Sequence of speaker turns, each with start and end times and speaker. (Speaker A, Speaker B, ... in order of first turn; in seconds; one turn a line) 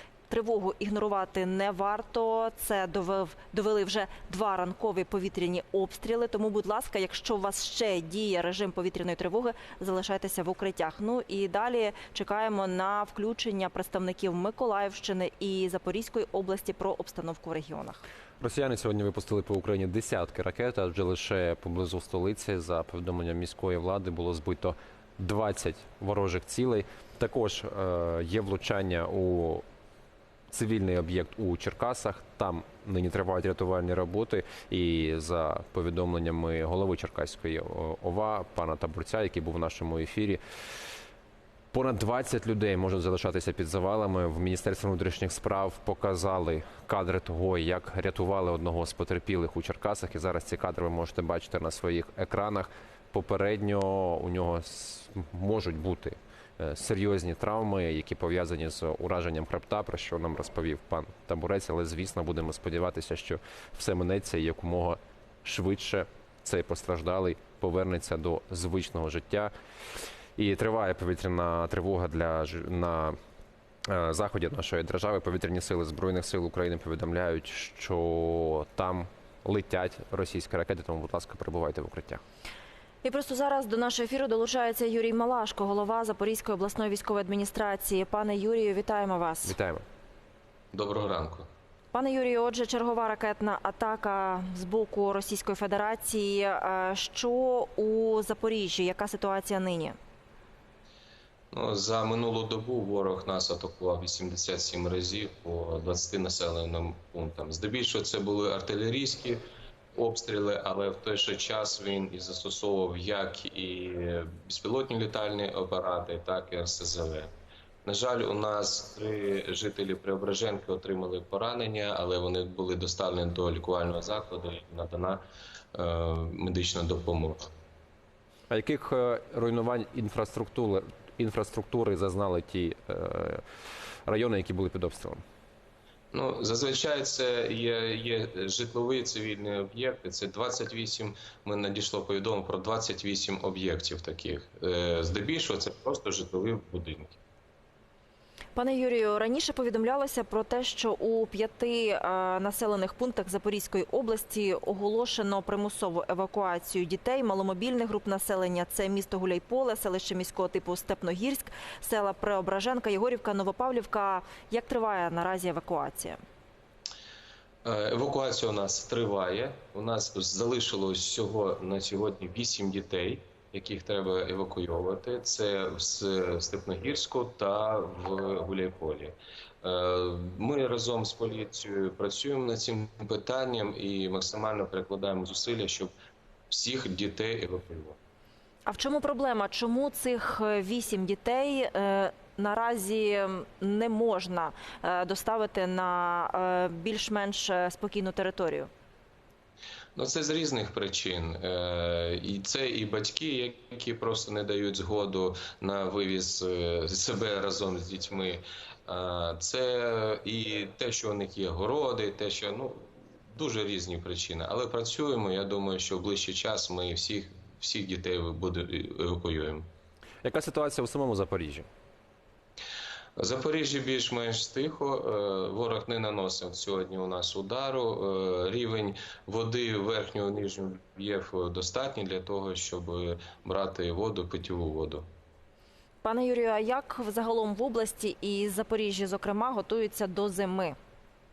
Speaker A: 0.3-18.0
Speaker B: 18.4-29.6
Speaker B: 30.5-40.4
Speaker B: 41.7-69.5
Speaker B: 70.4-73.2
Speaker B: 73.9-82.2
Speaker A: 83.0-89.5
Speaker B: 89.4-89.8
Speaker C: 90.7-91.5
Speaker A: 91.9-100.0
Speaker C: 101.5-109.4
Speaker C: 110.0-117.3
Speaker C: 117.8-125.2
Speaker C: 125.7-127.5
Speaker B: 128.5-133.4
Speaker B: 134.1-135.2
Speaker C: 136.1-147.2
Speaker A: 148.6-166.2
Speaker C: 167.7-185.9
Speaker C: 186.5-188.0
Speaker A: 188.7-198.7
Speaker C: 200.0-219.7
Speaker B: 220.2-221.7
Speaker C: 223.2-235.1
Speaker A: 236.0-240.8